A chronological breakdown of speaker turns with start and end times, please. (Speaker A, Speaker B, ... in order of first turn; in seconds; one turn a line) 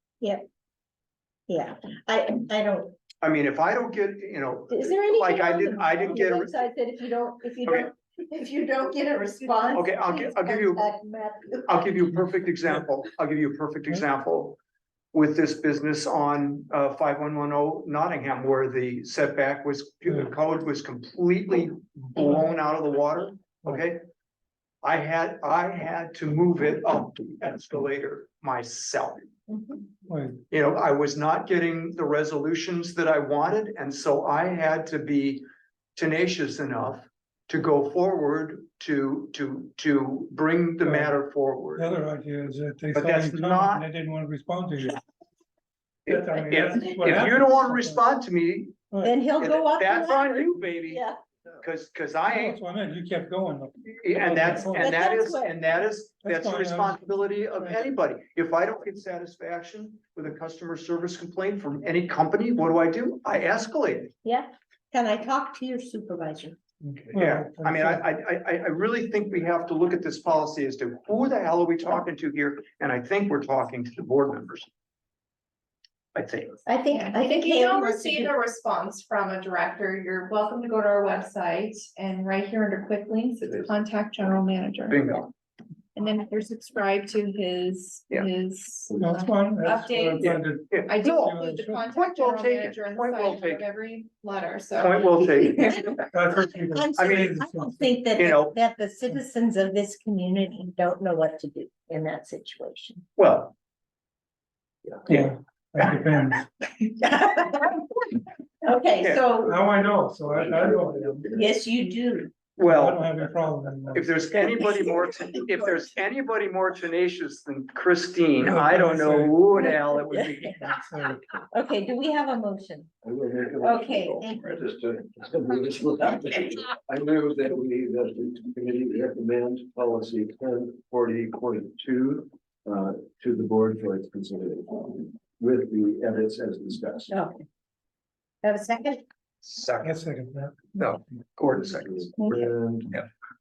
Speaker A: 1.5-3.0
Speaker B: 3.2-6.5
Speaker A: 4.7-11.9
Speaker B: 9.7-10.8
Speaker B: 11.7-14.6
Speaker B: 15.1-24.0
Speaker C: 20.1-20.3
Speaker C: 22.2-22.4
Speaker B: 24.8-29.3
Speaker A: 29.5-29.8
Speaker C: 30.1-30.4
Speaker B: 30.5-41.9
Speaker C: 40.8-41.2
Speaker C: 41.7-45.0
Speaker B: 42.9-43.8
Speaker C: 46.0-48.0
Speaker B: 46.1-48.8
Speaker C: 48.9-49.1
Speaker A: 49.0-51.2
Speaker B: 49.4-51.0
Speaker B: 51.6-52.6
Speaker C: 52.2-55.0
Speaker B: 53.9-64.1
Speaker A: 54.6-55.5
Speaker C: 56.2-57.6
Speaker A: 64.2-66.6
Speaker C: 66.8-68.0
Speaker B: 67.0-74.7
Speaker B: 76.1-76.6
Speaker A: 76.7-78.3
Speaker D: 76.9-85.2
Speaker B: 84.9-85.3
Speaker D: 85.9-95.9
Speaker C: 89.0-91.8
Speaker B: 90.2-91.4
Speaker B: 91.9-93.6
Speaker B: 94.8-96.0
Speaker A: 95.8-103.0
Speaker C: 96.1-98.0
Speaker B: 97.0-97.3
Speaker B: 98.2-98.5
Speaker B: 103.2-103.5
Speaker B: 104.9-106.0
Speaker C: 105.1-106.5
Speaker A: 107.0-108.0
Speaker A: 108.6-109.6
Speaker C: 109.5-111.3
Speaker E: 110.3-111.5
Speaker A: 111.3-112.3
Speaker B: 112.6-113.1
Speaker C: 112.6-114.2
Speaker B: 113.9-121.1
Speaker A: 114.4-115.9
Speaker C: 118.4-119.7
Speaker A: 119.6-122.9
Speaker C: 120.9-121.2
Speaker E: 123.0-137.1
Speaker A: 123.6-124.4
Speaker A: 137.1-137.4
Speaker A: 138.4-139.0
Speaker B: 139.4-140.0
Speaker C: 139.8-140.7
Speaker B: 140.8-142.3
Speaker E: 141.5-143.0
Speaker A: 142.2-142.5